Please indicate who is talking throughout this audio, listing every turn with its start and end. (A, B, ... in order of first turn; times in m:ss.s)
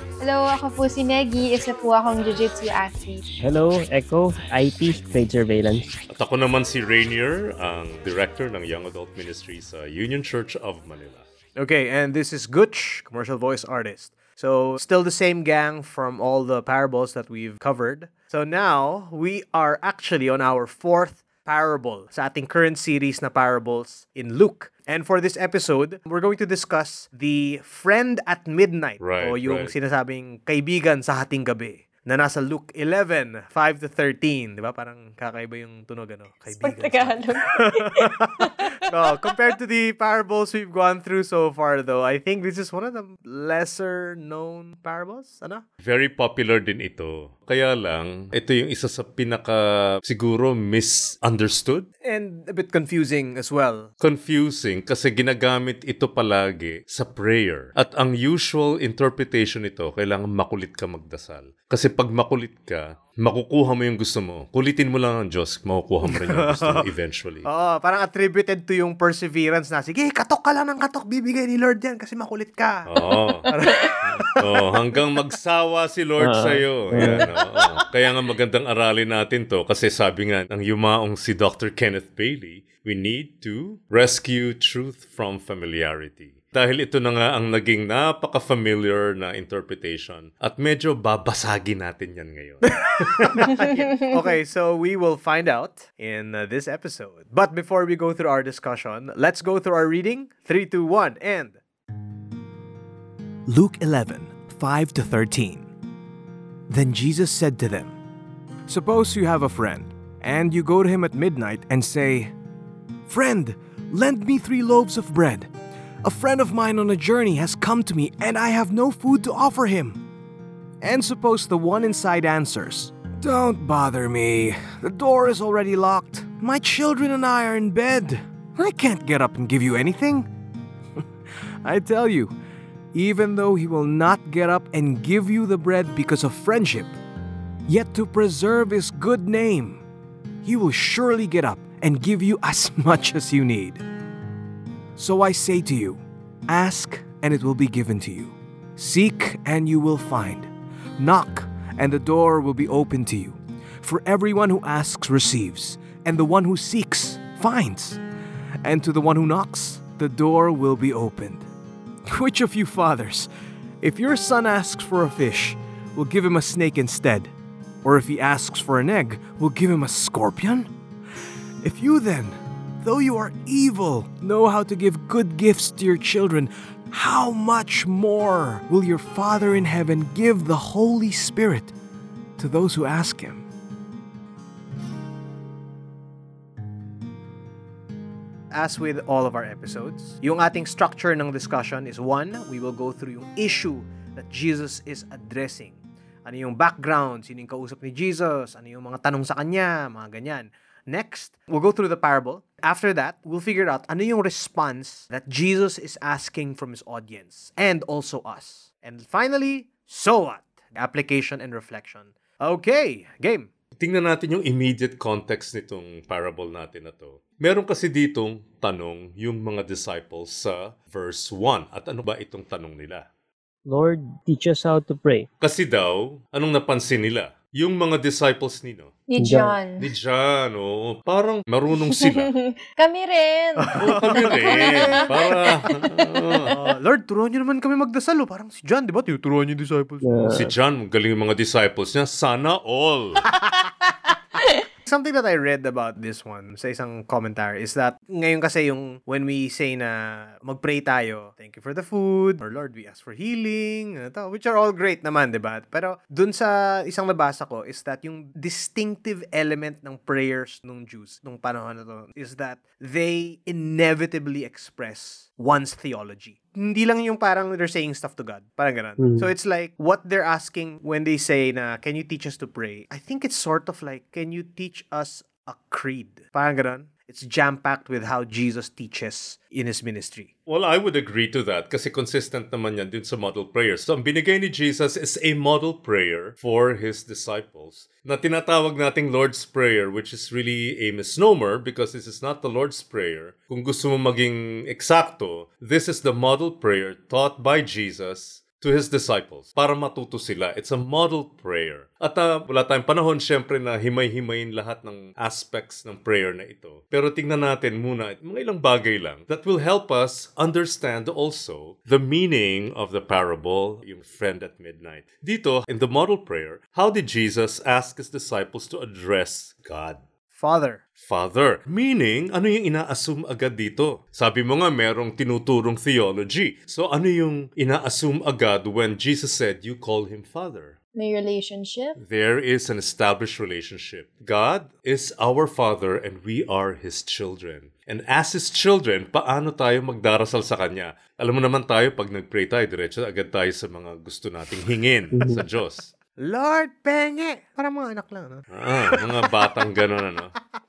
0:00.2-0:03.2 A
0:03.4-0:05.9 B
0:06.1-0:11.3 C
0:11.6-0:45.6 D
0:29.0-0:29.7 C
0:36.5-0:39.4 A
0:45.8-0:51.9 C
0:52.0-0:53.9 D
0:54.0-1:07.4 C
1:06.0-1:06.9 D
1:07.4-1:12.9 D
1:12.9-1:13.5 C
1:13.5-1:14.7 D
1:14.0-1:33.5 C
1:16.2-1:17.2 B
1:17.0-1:17.3 D
1:32.7-1:41.6 D
1:43.5-1:45.7 D
1:46.7-1:48.0 D
1:48.7-1:52.3 D
1:53.1-1:55.5 D
1:56.0-2:00.0 D
2:00.8-2:10.3 D
2:11.6-2:12.3 D
2:12.9-2:16.9 D
2:17.7-2:19.8 D
2:20.4-2:23.8 D
2:25.0-2:38.0 D
2:38.6-2:41.5 D
2:42.1-2:43.3 D
2:43.8-2:47.3 D
2:47.8-2:50.7 D
2:51.6-3:01.7 D
3:02.4-3:03.4 D
3:08.5-3:33.5 D
3:33.8-3:43.1 C
3:43.7-3:45.3 B
3:45.4-3:48.9 C
3:49.1-3:49.9 A
3:49.2-3:49.6 B
3:49.8-3:52.3 C
3:51.8-3:56.5 A
3:53.6-3:55.1 D
3:53.8-3:56.5 C
3:56.5-4:00.1 D
4:00.0-4:00.5 B
4:00.2-4:03.3 C
4:04.8-4:40.3 D
4:29.0-4:29.3 B
4:40.5-5:20.0 C
5:20.3-5:20.8 D
5:21.0-5:30.8 C
5:31.0-5:32.0 A
5:32.0-5:45.9 C
5:45.2-5:45.4 B
5:46.2-5:49.3 D
5:48.5-5:50.3 C